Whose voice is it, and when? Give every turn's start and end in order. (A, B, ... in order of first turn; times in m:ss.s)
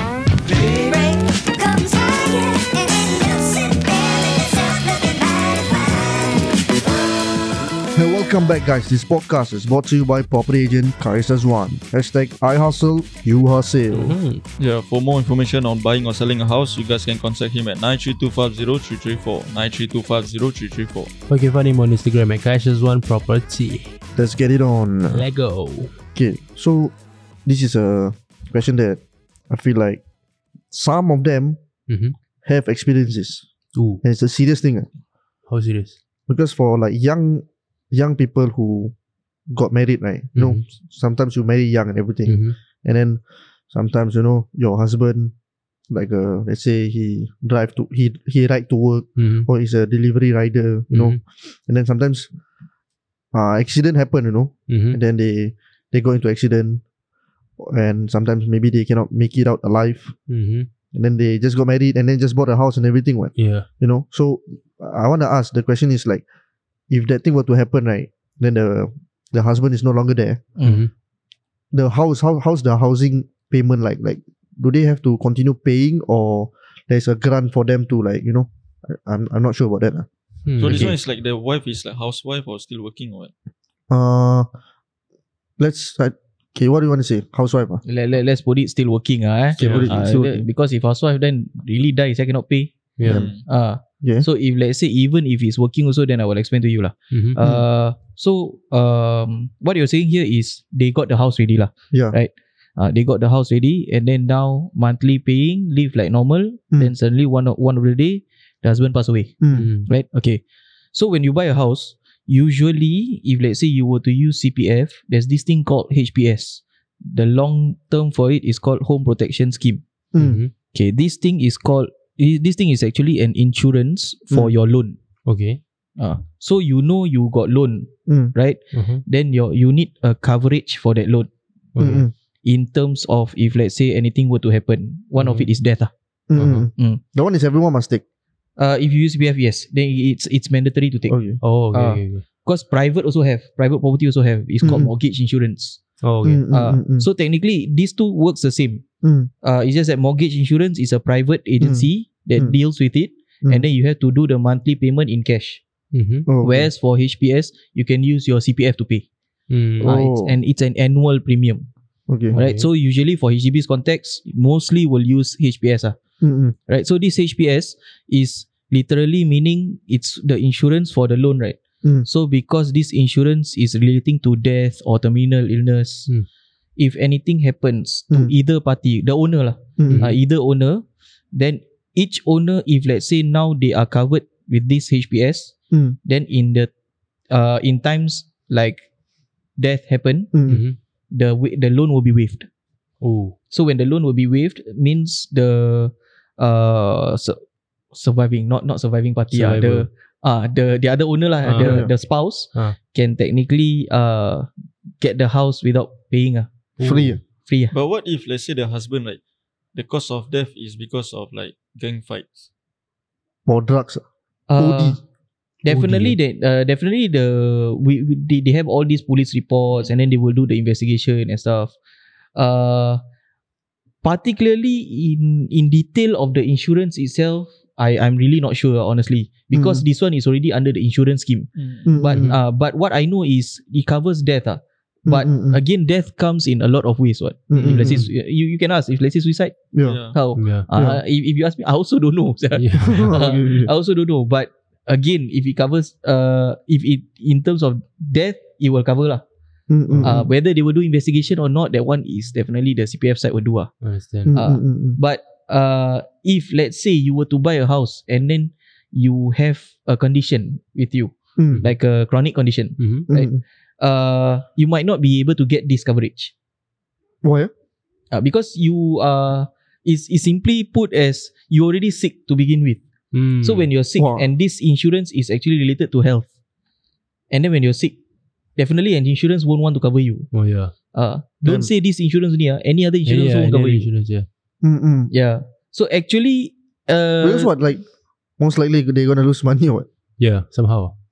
0:00.5-0:07.3 A
0:08.0-0:14.2 B
0:13.9-0:14.4 C
0:14.6-0:21.1 D
0:21.3-0:23.9 C
0:24.1-0:25.2 B
0:25.1-0:25.9 C
0:26.1-0:26.9 B
0:27.5-0:30.0 B
0:30.7-0:31.6 B
0:31.9-0:32.1 C
0:32.4-0:33.5 B
0:33.8-0:34.0 C
0:34.0-0:34.9 B
0:35.5-0:36.0 C
0:36.3-0:38.9 B
0:39.5-0:43.2 B
0:40.4-0:40.6 C
0:42.3-0:42.6 C
0:43.7-0:45.3 B
0:45.9-0:52.3 B
0:49.2-0:49.5 C
0:50.9-0:51.2 C
0:53.3-0:56.8 B
0:54.7-0:55.0 C
0:57.6-1:00.1 B
1:00.3-1:00.7 C
1:00.9-1:06.2 B
1:03.4-1:03.7 C
1:06.9-1:10.5 B
1:10.6-1:10.9 E
1:10.6-1:10.9 C
1:11.7-1:20.1 B
1:20.5-1:20.9 C
1:20.6-1:23.3 D
1:20.6-1:20.9 B
1:23.9-1:24.5 B
1:25.6-1:27.8 B
1:27.9-1:32.7 E
1:29.6-1:29.9 C
1:29.6-1:30.5 B
1:33.0-1:33.2 C
1:33.1-1:33.4 D
1:33.5-1:50.4 E
1:34.0-1:34.3 B
1:37.1-1:37.4 C
1:41.9-1:42.2 B
1:49.4-1:49.7 B
1:49.5-1:49.9 C
1:50.9-1:59.8 E
2:00.1-2:00.4 B
2:00.2-2:00.5 C
2:00.7-2:05.0 E
2:05.3-2:05.6 C
2:06.0-2:11.3 E
2:08.1-2:08.3 B
2:08.7-2:09.0 C
2:11.8-2:12.0 C
2:11.8-2:12.1 B
2:12.4-2:15.9 E
2:15.2-2:15.5 C
2:16.3-2:18.0 B
2:16.4-2:16.7 C
2:16.8-2:17.0 E
2:18.6-2:21.2 E
2:21.1-2:21.4 B
2:21.4-2:22.2 C
2:21.7-2:25.8 E
2:24.6-2:24.9 B
2:26.0-2:26.4 C
2:26.2-2:27.1 B
2:26.5-2:28.8 E
2:29.0-2:29.3 B
2:29.4-2:35.6 E
2:31.6-2:31.9 B
2:35.9-2:36.3 C
2:36.3-2:36.7 B
2:36.4-2:39.1 E
2:39.5-2:39.9 C
2:39.8-2:41.6 E
2:39.8-2:40.4 B
2:42.1-2:42.4 B
2:42.3-2:42.7 C
2:42.3-2:46.0 E
2:46.2-2:46.6 B
2:46.7-2:56.1 E
2:56.8-3:05.5 E
2:59.8-3:00.1 B
2:59.9-3:00.1 C
3:06.0-3:06.7 E
3:07.3-3:08.9 E
3:09.6-3:10.3 E
3:10.3-3:10.6 B
3:10.5-3:10.8 C
3:11.1-3:12.5 E
3:13.0-3:13.4 C
3:13.5-3:17.4 E
3:17.9-3:24.5 E
3:19.3-3:19.9 C
3:21.4-3:21.9 C
3:21.6-3:21.9 B
3:25.0-3:26.5 E
3:26.8-3:27.2 C
3:26.8-3:27.2 B
3:27.4-3:27.7 E
3:27.7-3:29.2 D
3:29.8-3:32.5 D
3:33.5-3:34.0 B
3:34.5-3:35.0 E
3:34.6-3:35.0 B
3:35.6-3:41.7 E
3:35.7-3:36.2 C
3:42.4-3:43.0 E
3:44.0-3:59.6 E
3:49.5-3:49.9 B
3:51.6-3:51.9 D
3:51.9-3:52.3 B
3:55.1-3:55.6 B
3:57.5-3:58.0 B
3:57.6-3:58.1 C
3:59.7-4:00.0 B
3:59.8-4:00.2 D
4:00.1-4:09.2 E
4:00.4-4:00.7 C
4:00.7-4:01.0 B
4:02.6-4:03.1 C
4:02.8-4:03.7 B
4:09.7-4:10.3 B
4:09.9-4:10.2 C
4:10.0-4:13.7 E
4:13.8-4:14.3 C
4:14.3-4:15.0 B
4:14.3-4:26.3 E
4:21.4-4:21.6 B
4:22.8-4:23.1 C
4:23.1-4:23.4 B
4:27.2-4:27.5 B
4:28.1-4:32.8 E
4:33.1-4:33.7 C
4:33.4-4:36.3 E
4:34.0-4:34.3 B
4:37.3-4:38.0 E
4:38.6-4:40.3 E
4:40.3-4:40.7 C
4:40.9-4:43.9 E
4:41.4-4:41.7 B
4:43.0-4:44.3 C
4:44.6-4:45.1 B
4:45.1-4:47.5 E
4:47.2-4:47.8 B
4:48.4-4:49.9 B
4:50.2-4:50.9 C